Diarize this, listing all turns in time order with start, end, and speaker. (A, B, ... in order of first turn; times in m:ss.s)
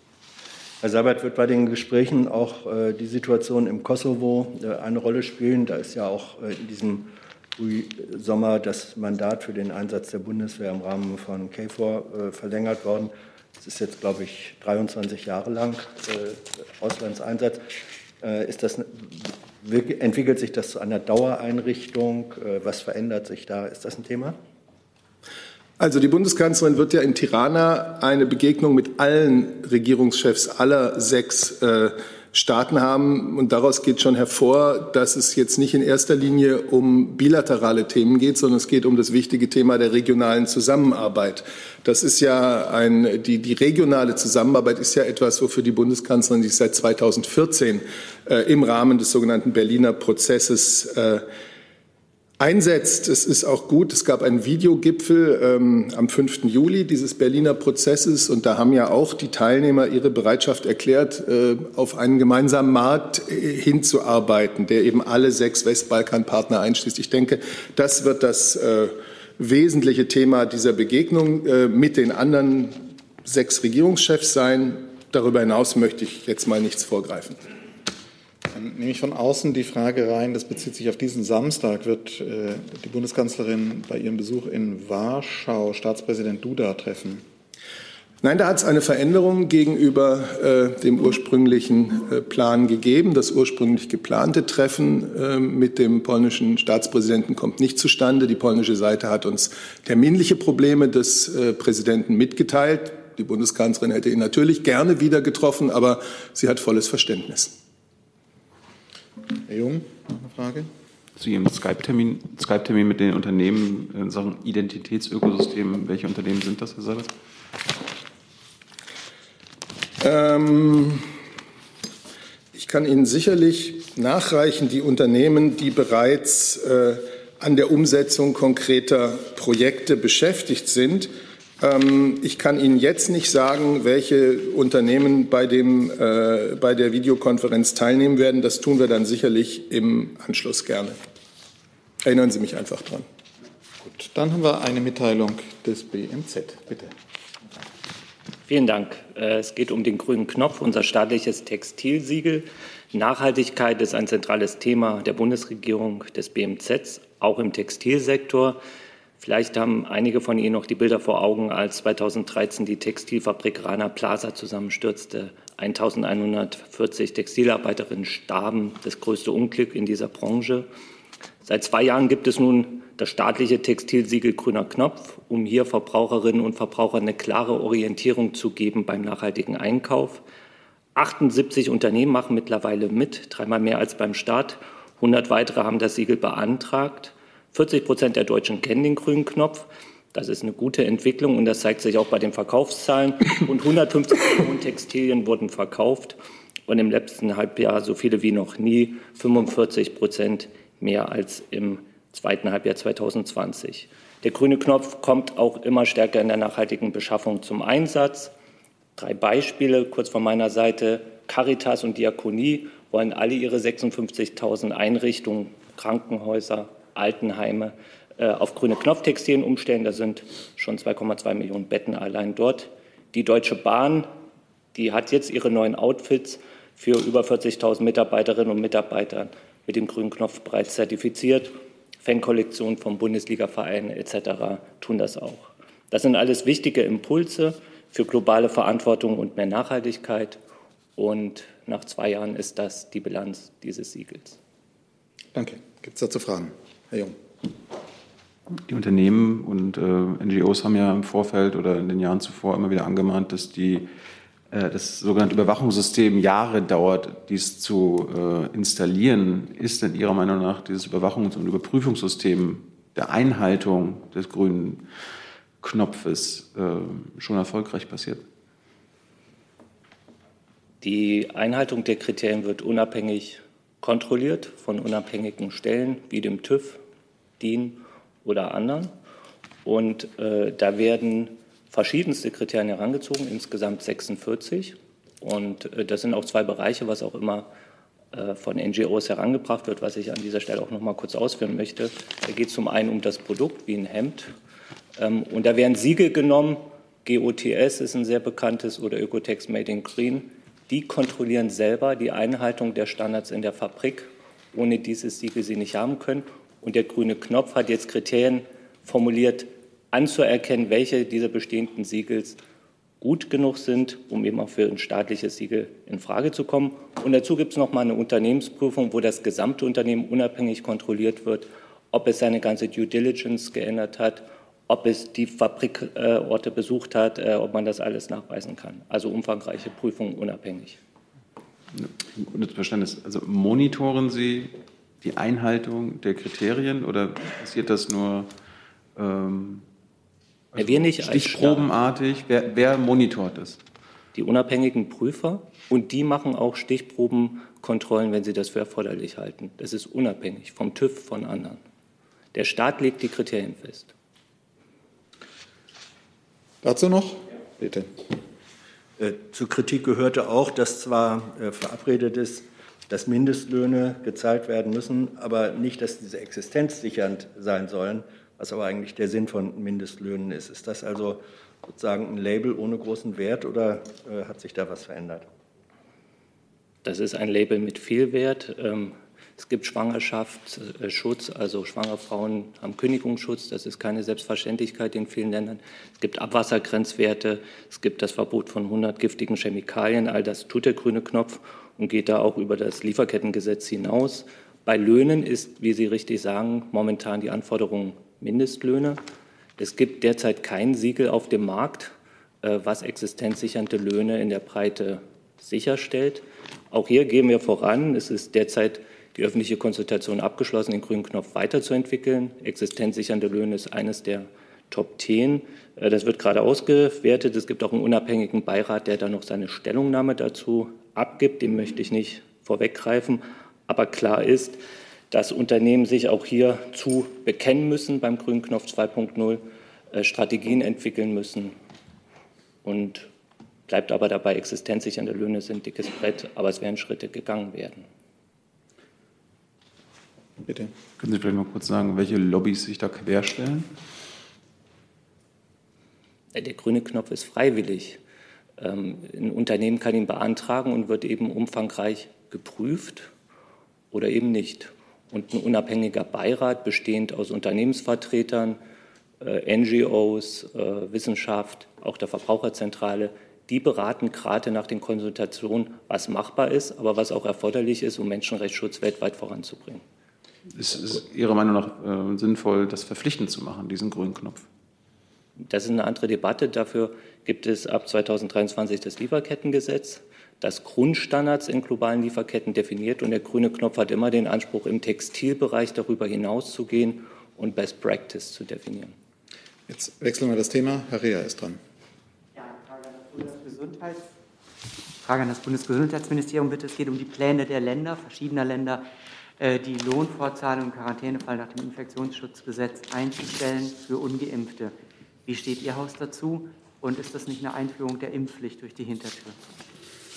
0:00.8-0:17.6 A
0:18.2-0:24.4 A
0:25.8-0:51.2 B
0:52.4-1:17.4 B
1:18.5-1:27.2 C
1:28.2-1:47.6 B
1:49.4-1:50.7 C
1:51.2-1:57.1 D
2:00.0-2:01.0 B
2:02.5-2:21.0 B
2:22.0-2:23.1 B
2:23.8-2:26.9 C
2:28.5-2:38.6 E
2:39.2-2:50.7 E
2:51.4-3:00.2 E
3:00.9-3:28.3 E
3:29.0-3:44.1 E
3:44.7-4:00.4 E
4:01.0-4:04.4 E
4:05.3-4:07.2 C
4:08.5-4:13.9 D
4:14.5-4:24.8 D
4:25.6-4:28.2 D
4:30.8-4:36.8 E
4:37.4-4:39.0 E
4:39.6-4:47.5 E
4:48.1-4:54.3 E
4:55.0-5:12.4 E
5:13.0-5:30.8 E
5:31.7-5:38.3 D
5:39.0-5:39.6 D
5:40.5-5:43.6 D
5:40.6-5:41.7 E
5:44.1-5:51.6 E
5:52.3-5:53.9 E
5:56.6-5:57.9 C
5:59.0-6:15.2 A
6:16.8-6:39.0 E
6:39.6-7:04.6 E
7:05.1-7:11.6 E
7:12.6-7:13.1 E
7:13.7-7:17.9 E
7:20.4-7:20.7 C
7:21.0-7:23.7 D
7:26.3-7:28.0 E
7:28.6-7:33.1 E
7:33.9-7:38.6 E
7:39.2-7:49.8 E
7:50.5-7:54.4 D
7:55.4-8:09.0 E
8:09.7-8:11.6 C
8:12.4-8:14.1 F
8:15.0-8:18.9 F
8:19.4-8:24.7 F
8:25.2-8:29.4 F